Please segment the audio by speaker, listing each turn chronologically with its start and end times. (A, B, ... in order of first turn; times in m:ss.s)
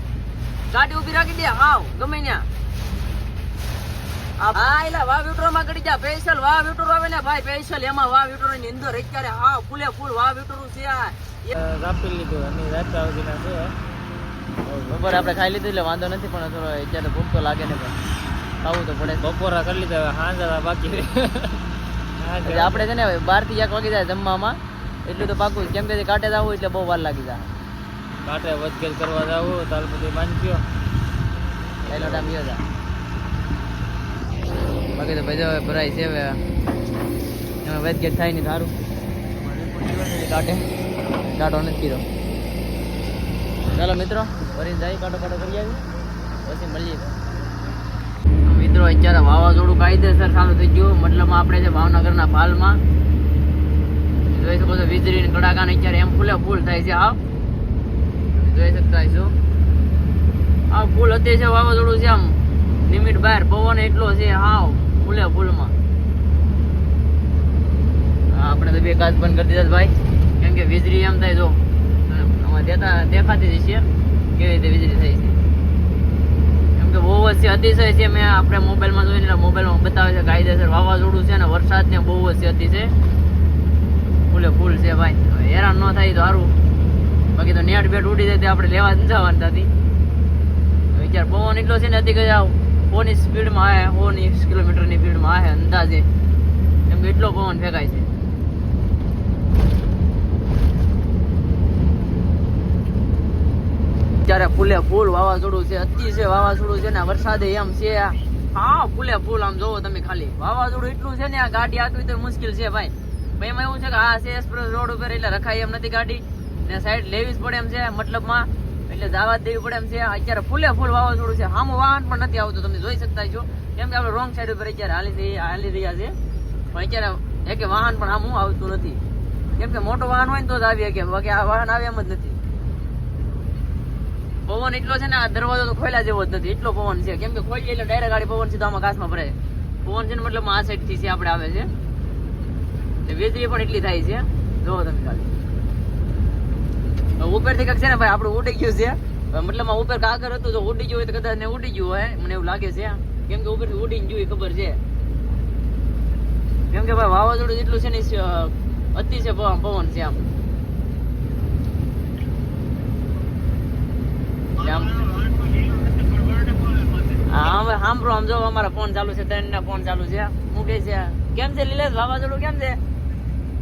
0:00.7-0:02.5 A
0:04.4-0:11.6 A
0:11.6-0:13.8 B
0:14.6-0:15.4 B
0:14.9-0:18.0 A
0:18.6-0:19.2 A
0:19.2-0:21.6 B
0:22.2-0:22.9 B
0:22.4-0:27.5 A
0:28.2-0:30.6 B
0:31.9-0:32.3 B
0:31.9-0:32.6 A
0:35.0-0:36.4 A
0:37.6-0:38.8 A
0:39.4-0:42.0 A
0:43.7-0:45.8 A
0:46.4-0:47.1 A
0:48.4-0:52.8 A
0:54.3-0:57.2 A
0:58.4-0:59.3 A
1:00.7-1:05.7 A
1:08.3-1:13.9 A
1:14.4-1:15.4 A
1:16.8-1:22.9 A
1:24.3-1:26.5 A
1:27.3-1:29.7 A
1:30.9-1:36.1 A
1:36.9-1:38.1 A
1:44.2-2:06.2 A
2:06.7-2:09.0 A
2:09.6-2:12.4 A
2:14.5-2:21.7 A
2:23.0-2:25.3 A
2:27.2-2:34.8 A
2:36.7-2:40.2 A
2:44.6-2:45.1 A
2:47.3-2:52.8 A